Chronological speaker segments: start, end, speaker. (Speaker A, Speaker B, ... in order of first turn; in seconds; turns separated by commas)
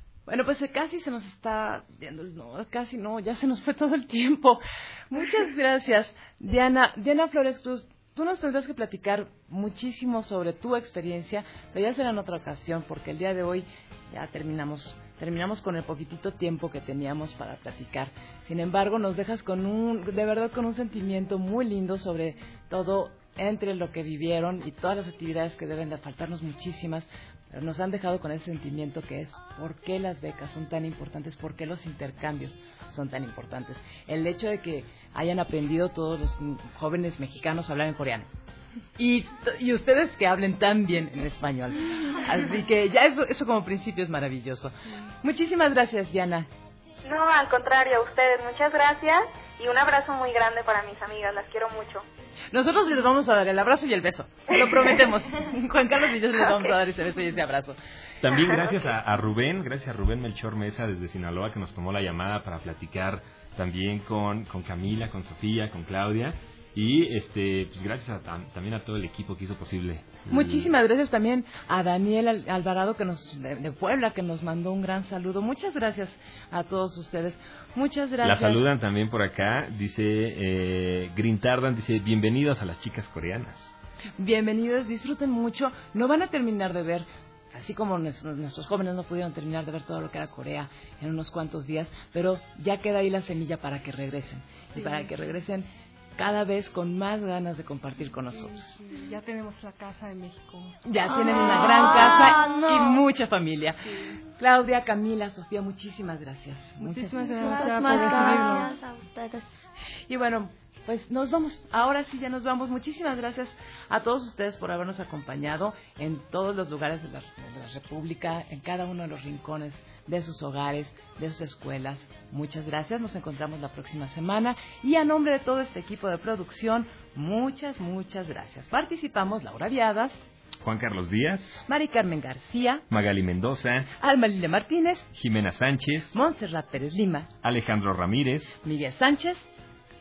Speaker A: 0.3-38.3, Speaker A: 39.0-46.5, Speaker B: 47.0-52.1, Speaker A: 52.5-57.8, Speaker B: 54.5-55.0, Speaker C: 58.2-70.7, Speaker B: 58.5-58.8, Speaker A: 70.3-78.6, Speaker C: 78.2-83.7, Speaker A: 84.2-98.8, Speaker D: 94.8-95.1, Speaker D: 98.3-100.8, Speaker A: 100.8-103.8, Speaker E: 101.3-103.0, Speaker D: 102.2-102.5, Speaker D: 103.9-104.2, Speaker A: 104.4-108.1, Speaker D: 106.8-108.7, Speaker E: 107.3-109.6, Speaker A: 110.1-130.3, Speaker C: 130.6-131.7, Speaker A: 131.7-132.9, Speaker C: 132.9-133.9, Speaker A: 134.0-135.1, Speaker C: 135.1-136.2, Speaker A: 136.1-137.3, Speaker C: 137.4-138.6, Speaker A: 138.6-139.5